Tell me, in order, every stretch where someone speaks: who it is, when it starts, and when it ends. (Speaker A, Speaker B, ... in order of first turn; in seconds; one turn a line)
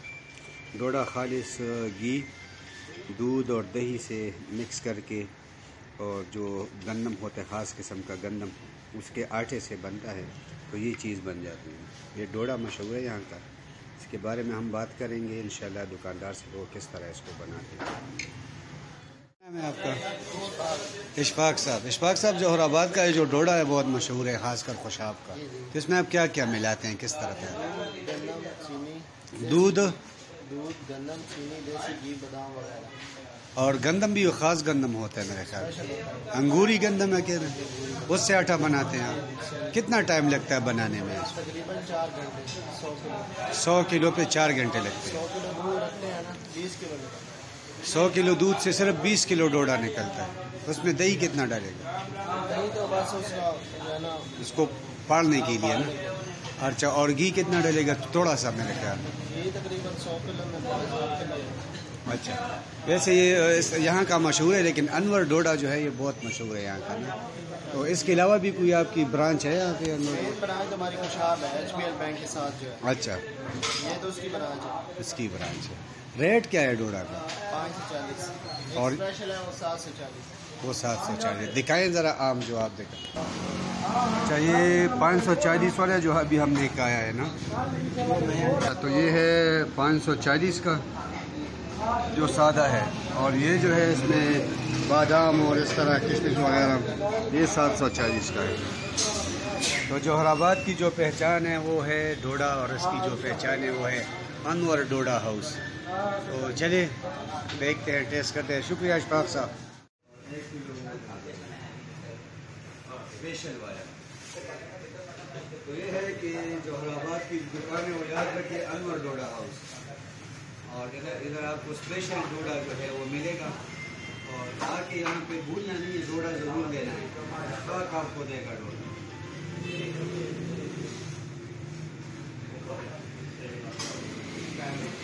Speaker A: 0.7-2.3
Speaker A: 3.1-5.3
Speaker A: 6.0-13.4
Speaker A: 14.0-17.9
Speaker A: 19.4-20.0
Speaker B: 20.3-20.9
Speaker A: 21.1-27.6
Speaker B: 25.4-25.7
Speaker B: 27.5-29.9
Speaker A: 29.3-29.9
Speaker B: 30.4-32.9
Speaker A: 33.5-35.8
Speaker B: 35.6-36.3
Speaker A: 36.3-39.2
Speaker B: 39.1-39.7
Speaker A: 39.7-41.4
Speaker B: 41.3-43.3
Speaker A: 43.5-45.2
Speaker B: 45.0-47.3
Speaker A: 47.8-51.9
Speaker B: 52.3-54.4
Speaker A: 54.4-56.0
Speaker A: 56.6-59.1
Speaker B: 59.0-61.6
Speaker A: 62.1-67.2
Speaker A: 67.7-70.4
Speaker B: 70.1-72.8
Speaker A: 72.8-73.2
Speaker B: 73.8-74.9
Speaker A: 75.0-77.2
Speaker B: 77.3-80.3
Speaker A: 78.8-79.0
Speaker A: 80.6-83.0
Speaker A: 84.2-87.3
Speaker A: 88.0-90.8
Speaker A: 92.1-98.7
Speaker A: 99.9-105.6
Speaker A: 106.2-106.9
Speaker A: 107.5-109.5
Speaker A: 110.2-111.6
Speaker A: 112.9-113.9
Speaker A: 115.6-119.7
Speaker A: 120.7-123.6
Speaker A: 124.2-128.9